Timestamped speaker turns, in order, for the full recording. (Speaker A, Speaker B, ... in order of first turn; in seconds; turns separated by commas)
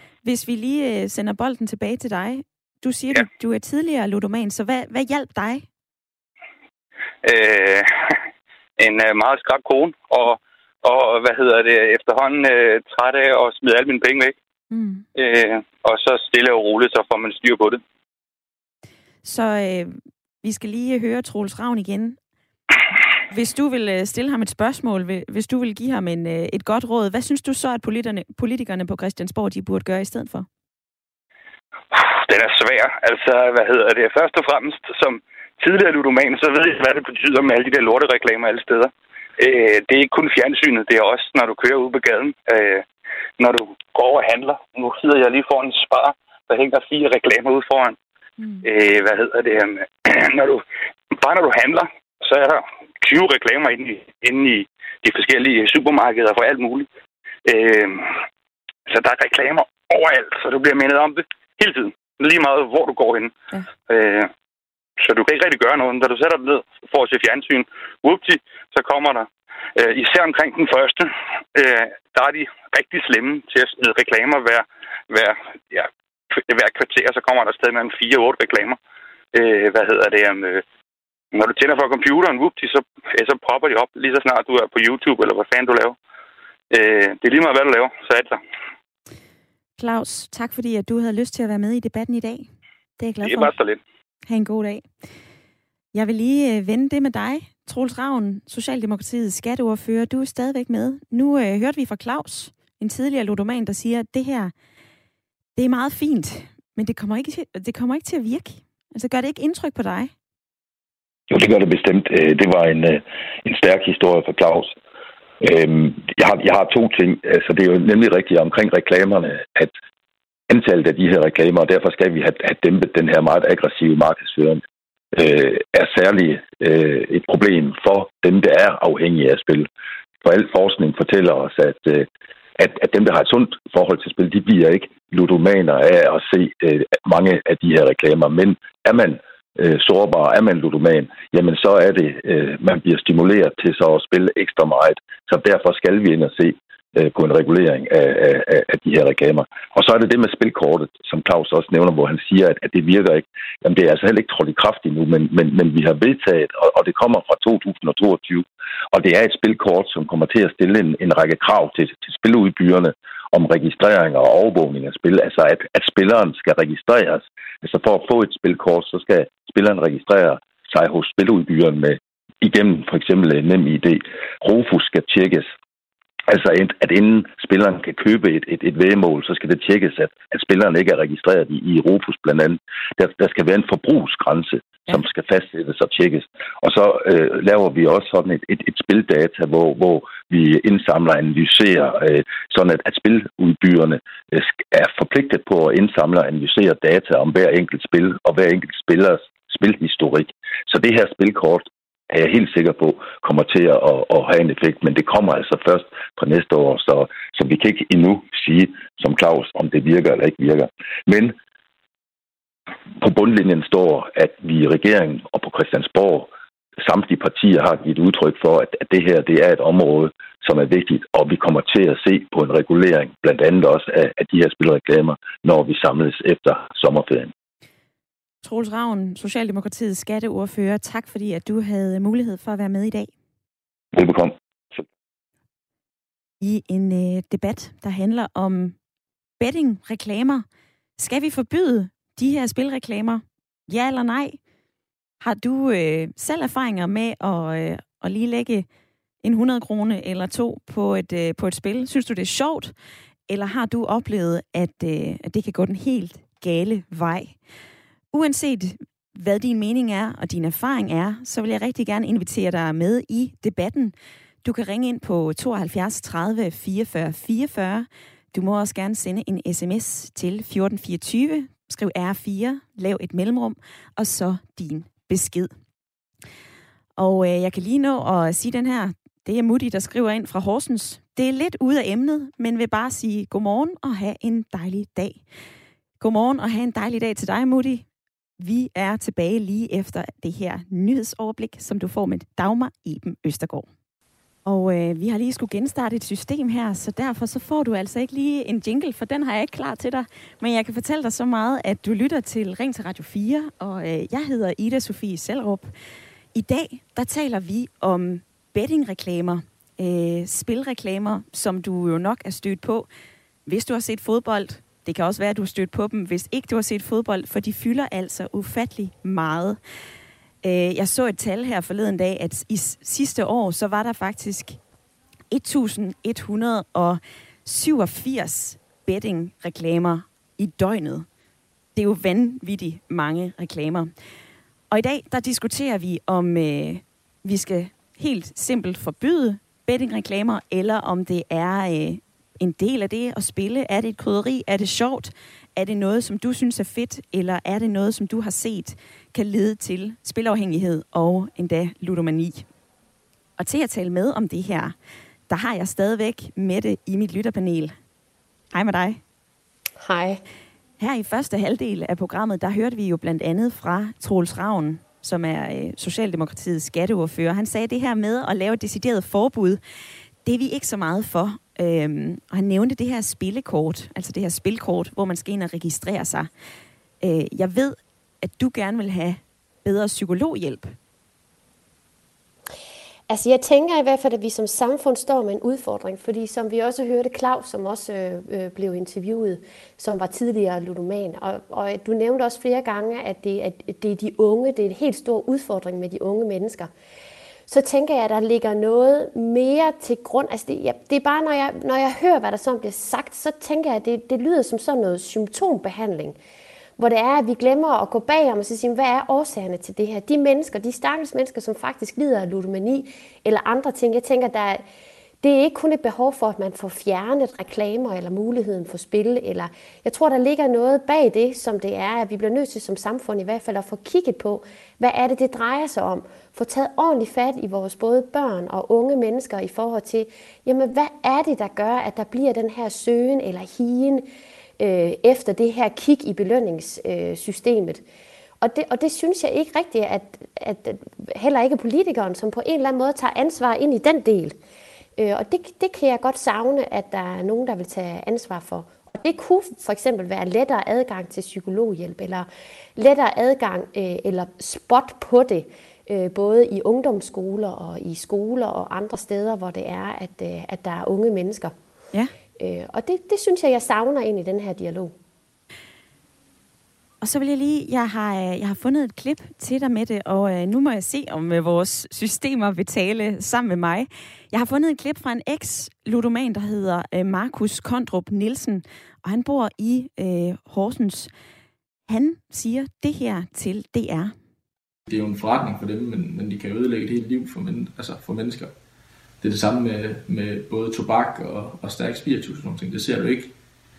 Speaker A: 0.2-5.7, Speaker B: 7.2-8.2, Speaker B: 8.8-14.3, Speaker A: 14.7-15.1, Speaker B: 15.2-17.8, Speaker A: 19.2-22.2, Speaker A: 23.3-30.5, Speaker B: 31.9-42.9, Speaker B: 43.4-48.0, Speaker A: 48.4-48.6, Speaker B: 48.6-56.9, Speaker B: 57.5-58.2, Speaker B: 58.9-63.3, Speaker B: 63.9-64.3, Speaker B: 65.0-78.8, Speaker B: 79.3-80.6, Speaker B: 81.3-86.0, Speaker B: 86.7-88.4, Speaker A: 89.8-92.5, Speaker A: 93.0-93.5, Speaker B: 93.2-93.8, Speaker A: 94.3-94.9, Speaker A: 95.9-104.5, Speaker A: 105.6-110.1, Speaker C: 111.3-114.8, Speaker C: 115.4-119.7, Speaker C: 120.5-124.6, Speaker C: 125.1-129.7, Speaker C: 130.2-175.5, Speaker C: 176.3-211.4, Speaker C: 213.0-216.3, Speaker C: 216.8-227.3, Speaker A: 228.4-233.1, Speaker C: 233.9-234.9, Speaker A: 236.4-238.8, Speaker A: 239.4-240.4, Speaker A: 241.0-244.4, Speaker A: 245.2-248.7, Speaker A: 249.2-252.7, Speaker A: 253.3-257.4, Speaker A: 258.1-275.5, Speaker A: 277.0-285.2, Speaker A: 286.0-287.9, Speaker A: 288.4-293.7, Speaker A: 294.5-305.7, Speaker A: 306.3-312.9, Speaker A: 313.5-319.6, Speaker A: 320.4-324.6, Speaker A: 325.3-331.1, Speaker A: 331.8-333.9, Speaker A: 334.7-352.5, Speaker A: 353.4-354.8, Speaker A: 355.3-357.7, Speaker A: 358.5-359.0, Speaker D: 359.8-360.2, Speaker A: 360.8-369.6, Speaker A: 370.2-376.3, Speaker A: 377.0-380.8, Speaker D: 383.1-396.7, Speaker D: 397.5-406.2, Speaker D: 406.8-414.6, Speaker D: 415.2-434.1, Speaker D: 434.6-437.8, Speaker D: 438.4-444.3, Speaker D: 445.0-461.5, Speaker D: 462.4-464.9, Speaker A: 467.0-481.1, Speaker A: 481.9-484.1, Speaker E: 484.9-488.6, Speaker E: 489.2-493.4